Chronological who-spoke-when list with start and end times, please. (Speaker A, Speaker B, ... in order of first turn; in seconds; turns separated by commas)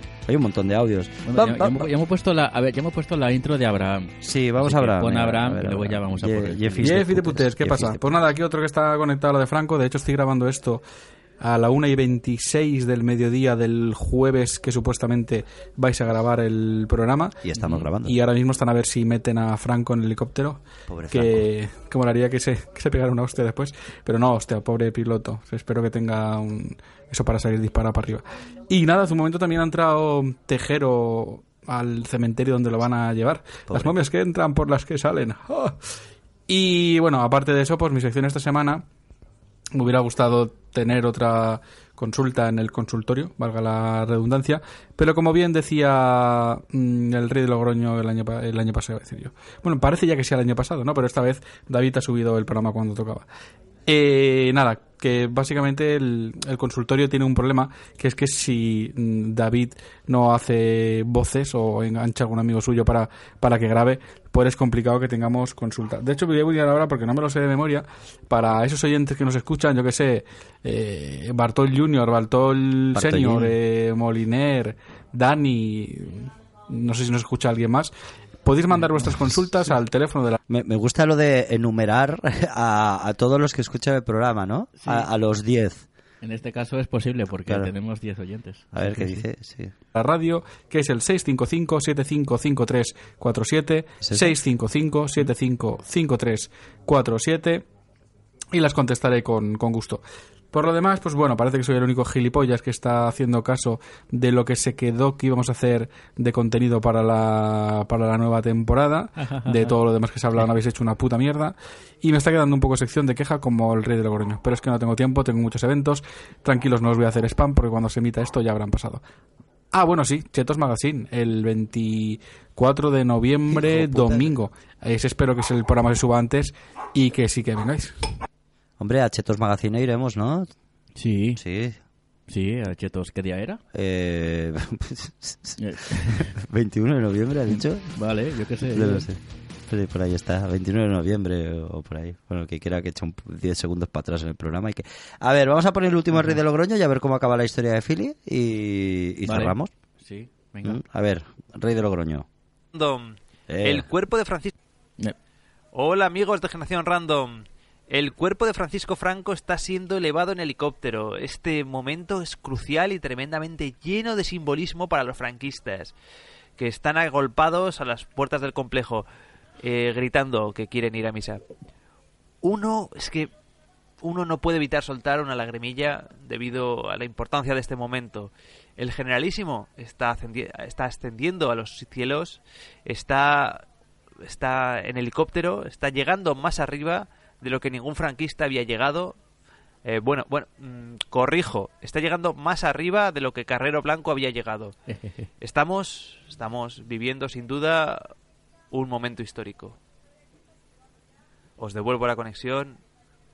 Speaker A: 0.3-1.9, Speaker B: 1.3-7.0, Speaker A: 4.2-8.2, Speaker C: 6.8-10.8, Speaker C: 11.4-17.4, Speaker A: 17.4-18.2, Speaker B: 17.6-17.9, Speaker C: 18.0-35.8, Speaker A: 20.9-21.5, Speaker A: 33.7-34.0, Speaker C: 36.5-38.9, Speaker C: 39.7-53.3, Speaker C: 53.9-77.9, Speaker A: 72.9-73.6, Speaker C: 78.4-80.4, Speaker A: 80.5-85.9, Speaker B: 84.8-85.1, Speaker B: 86.2-89.2, Speaker A: 87.5-87.7, Speaker A: 88.7-89.7, Speaker C: 89.9-97.7, Speaker A: 94.0-94.3, Speaker C: 98.5-119.0, Speaker B: 109.2-109.7, Speaker C: 119.7-127.9, Speaker A: 123.5-124.4, Speaker A: 128.8-130.5, Speaker B: 131.0-131.4, Speaker A: 131.4-131.8, Speaker B: 132.3-133.6, Speaker A: 133.7-137.9, Speaker B: 135.6-136.3, Speaker B: 137.5-139.1, Speaker A: 138.7-149.7, Speaker B: 146.1-146.4, Speaker B: 149.2-150.8, Speaker A: 150.6-152.3, Speaker D: 152.7-154.5, Speaker A: 153.5-153.9, Speaker D: 155.7-165.9, Speaker D: 166.6-169.1, Speaker D: 169.6-171.4, Speaker D: 172.4-173.3, Speaker D: 174.0-183.6, Speaker D: 184.2-189.2, Speaker D: 189.8-194.8, Speaker B: 194.9-195.3, Speaker D: 195.4-198.1, Speaker D: 198.7-199.8, Speaker D: 201.6-202.8